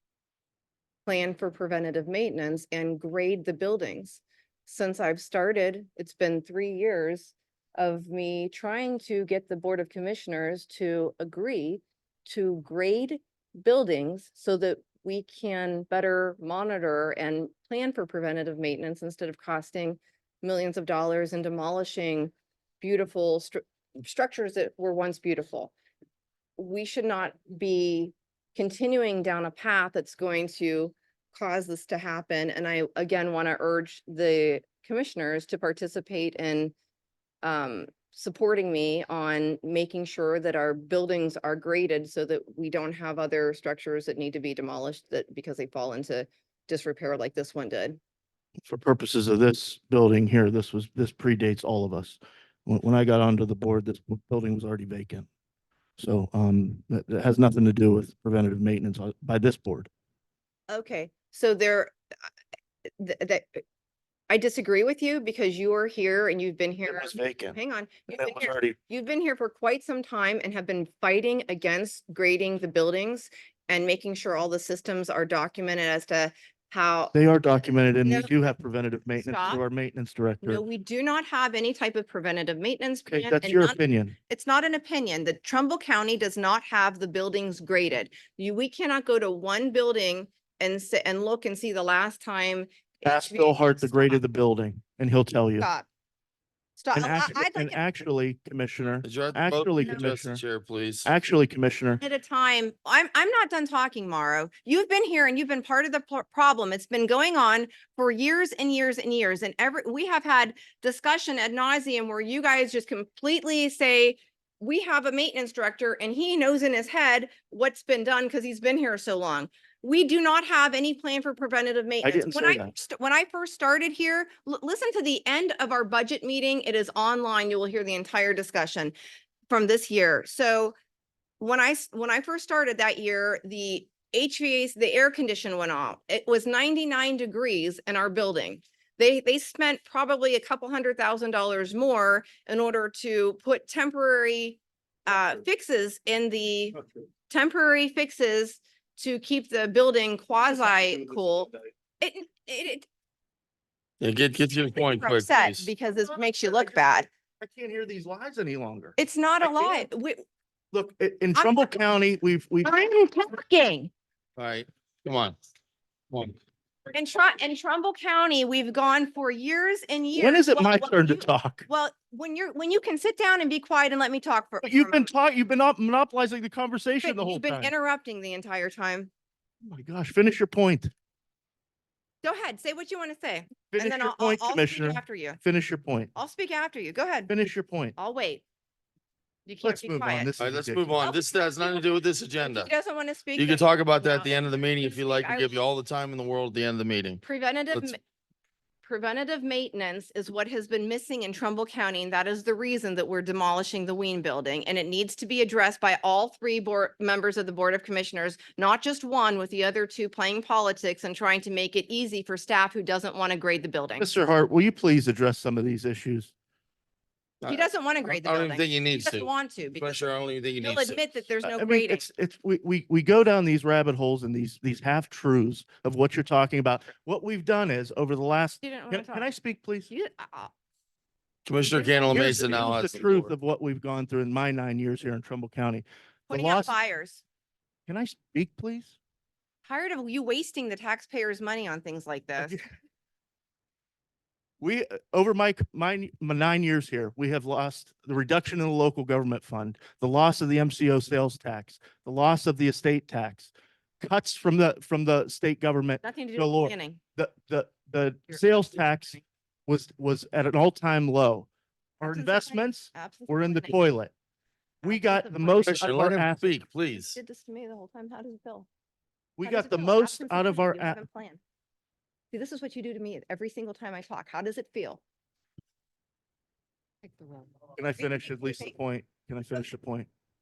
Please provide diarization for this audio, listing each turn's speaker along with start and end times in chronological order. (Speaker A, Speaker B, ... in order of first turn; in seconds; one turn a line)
Speaker A: 1.1-25.8
Speaker A: 26.6-36.7
Speaker A: 37.4-48.0
Speaker B: 48.7-55.3
Speaker B: 56.0-59.9
Speaker A: 60.7-61.9
Speaker A: 63.0-63.6
Speaker A: 64.3-77.2
Speaker B: 66.9-67.6
Speaker B: 68.1-68.8
Speaker B: 77.1-80.6
Speaker A: 78.0-78.3
Speaker A: 79.2-79.6
Speaker A: 80.4-94.2
Speaker B: 83.1-84.1
Speaker B: 93.0-95.7
Speaker A: 95.6-95.9
Speaker A: 96.8-97.8
Speaker B: 97.0-100.4
Speaker C: 99.0-101.1
Speaker B: 101.0-102.0
Speaker A: 102.0-128.9
Speaker B: 122.0-122.7
Speaker A: 129.5-130.8
Speaker A: 131.4-146.8
Speaker A: 147.3-152.9
Speaker C: 154.0-155.7
Speaker A: 154.8-157.1
Speaker B: 157.4-159.8
Speaker A: 159.0-160.2
Speaker B: 160.7-162.7
Speaker A: 161.3-161.7
Speaker A: 162.6-163.9
Speaker C: 164.4-165.4
Speaker A: 166.9-175.1
Speaker B: 170.2-171.7
Speaker B: 174.6-177.7
Speaker A: 177.0-179.1
Speaker B: 179.6-180.9
Speaker A: 182.2-185.4
Speaker B: 183.7-186.1
Speaker A: 186.2-187.3
Speaker B: 187.3-187.9
Speaker A: 188.0-188.4
Speaker A: 189.5-190.3
Speaker B: 189.6-191.0
Speaker C: 190.4-192.7
Speaker A: 191.0-191.8
Speaker A: 192.4-195.7
Speaker C: 193.3-197.2
Speaker A: 197.2-198.0
Speaker A: 198.8-214.1
Speaker B: 214.0-216.3
Speaker C: 217.4-221.0
Speaker A: 217.4-220.0
Speaker A: 220.6-222.1
Speaker B: 221.4-229.9
Speaker A: 228.6-229.3
Speaker A: 229.9-230.5
Speaker C: 231.5-233.3
Speaker A: 231.7-232.6
Speaker B: 232.1-236.7
Speaker A: 236.3-237.2
Speaker B: 237.9-238.9
Speaker A: 239.7-242.6
Speaker B: 242.4-242.7
Speaker B: 244.6-261.5
Speaker A: 256.0-257.0
Speaker B: 262.0-264.1
Speaker A: 262.1-263.9
Speaker A: 264.8-265.9
Speaker B: 264.8-266.5
Speaker C: 265.7-267.2
Speaker A: 266.9-268.7
Speaker B: 269.4-271.0
Speaker A: 269.4-271.4
Speaker A: 272.3-275.0
Speaker A: 277.0-278.8
Speaker B: 277.8-280.1